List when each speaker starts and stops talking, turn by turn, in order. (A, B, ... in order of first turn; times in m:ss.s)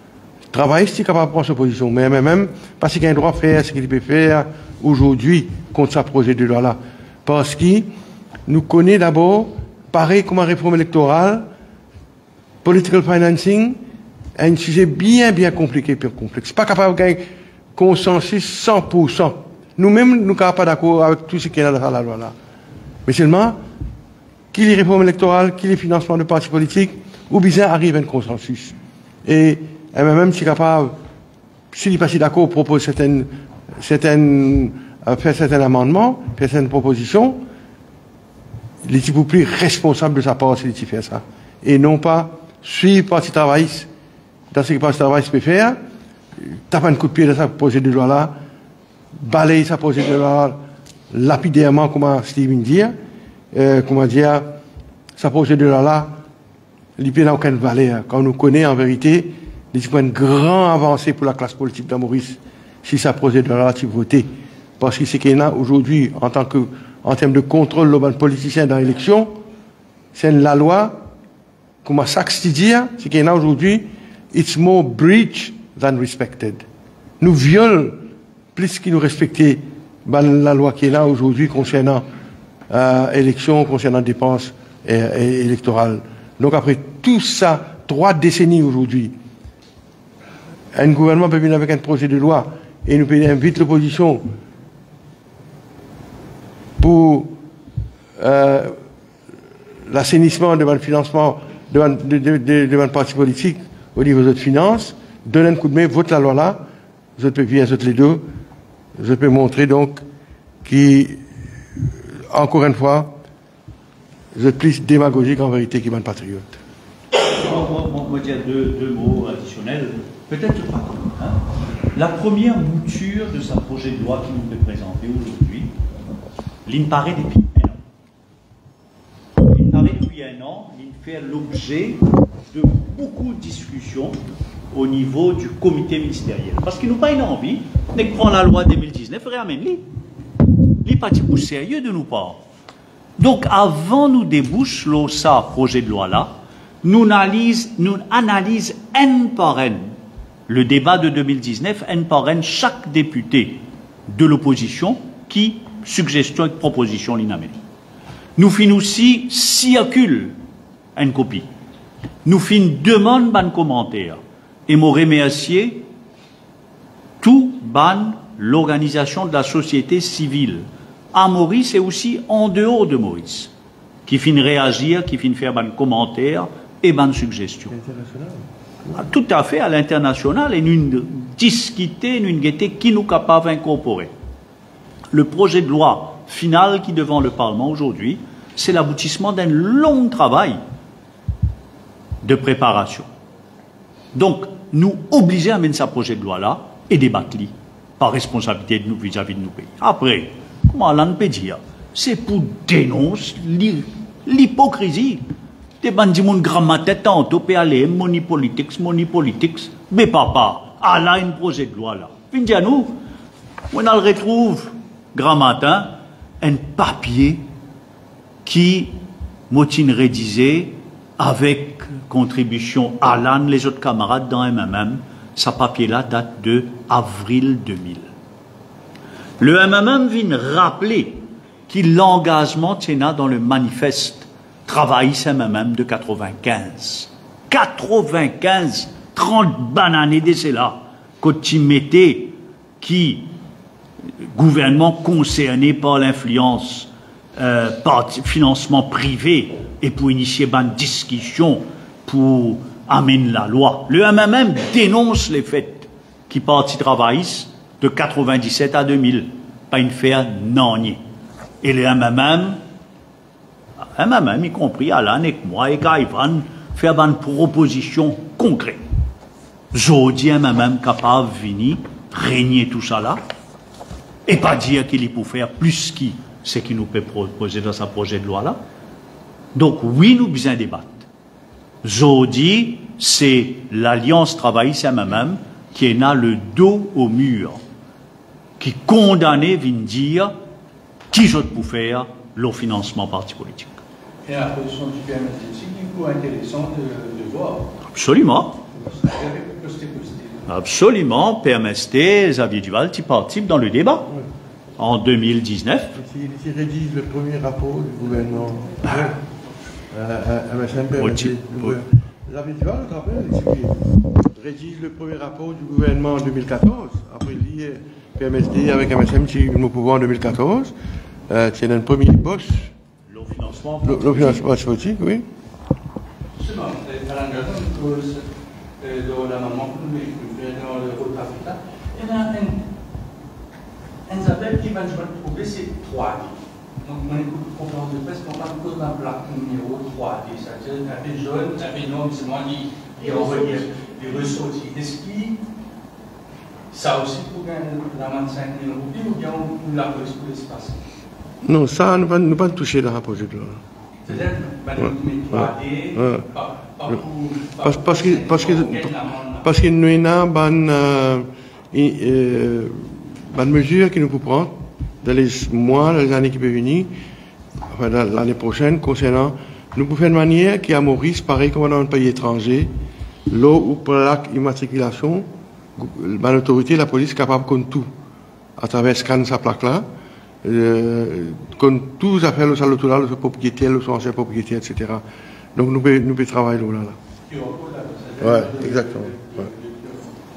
0:00.5-0:07.9 A
0:08.5-0:11.5 A
0:12.6-0:13.8 A
0:14.4-0:22.3 A
0:23.1-0:23.6 A
0:24.5-0:31.0 A
0:31.7-0:37.4 A
0:38.8-0:43.9 A
0:44.5-0:45.8 A
0:46.4-0:48.4 A
0:49.2-0:50.6 A
0:51.1-0:53.0 A
0:53.5-0:54.5 A
0:55.2-0:56.2 A
0:57.0-1:09.4 A
1:10.1-1:11.1 A
1:11.8-1:16.6 A
1:17.2-1:22.0 A
1:22.7-1:29.2 A
1:30.7-1:34.2 A
1:36.8-1:37.4 A
1:38.2-1:38.8 A
1:39.9-1:46.7 A
1:47.2-1:48.3 A
1:49.0-1:50.0 A
1:50.6-1:51.2 A
1:52.3-1:53.2 A
1:54.4-1:56.6 A
1:57.3-2:01.4 B
2:02.0-2:05.7 B
2:06.7-2:07.8 B
2:09.5-2:14.2 B
2:14.7-2:19.8 B
2:20.8-2:22.4 B
2:23.2-2:30.0 B
2:30.5-2:37.6 B
2:38.4-2:40.4 B
2:41.0-2:41.5 B
2:42.2-2:45.9 B
2:47.2-2:53.5 B
2:54.1-2:57.8 B
2:57.7-2:58.4 A
2:58.9-3:04.1 B
3:05.1-3:10.6 B
3:12.2-3:13.1 B
3:14.1-3:25.2 B
3:25.8-3:33.0 B
3:33.7-3:37.4 B
3:38.4-3:39.0 B
3:39.5-3:48.1 B
3:49.4-4:03.3 B
4:04.4-4:21.0 B
4:21.6-4:22.6 B
4:23.8-4:28.8 B
4:29.7-4:33.2 B
4:34.3-4:38.6 B
4:39.6-4:41.1 B
4:41.8-4:47.6 B
4:48.6-4:50.3 B
4:51.1-4:53.8 B
4:54.2-4:57.7 C
4:57.9-4:58.6 B
4:58.8-5:00.5 C
5:00.5-5:04.1 B
5:04.8-5:06.0 B
5:06.0-5:09.2 A
5:08.9-5:09.2 B
5:09.9-5:20.7 A
5:11.0-5:11.8 B
5:21.3-5:22.7 A
5:23.1-5:24.4 B
5:23.8-5:25.2 A
5:26.4-5:28.2 C
5:28.8-5:32.6 C
5:34.1-5:45.4 C
5:46.7-5:50.8 C
5:51.4-5:53.6 A
5:54.0-5:59.5 C
5:55.3-5:56.3 A
5:57.6-6:06.9 A
6:07.7-6:12.7 A
6:13.3-6:17.9 A
6:18.6-6:19.9 A
6:20.4-6:25.0 A
6:25.6-6:27.0 A
6:27.3-6:30.1 C
6:28.2-6:29.4 A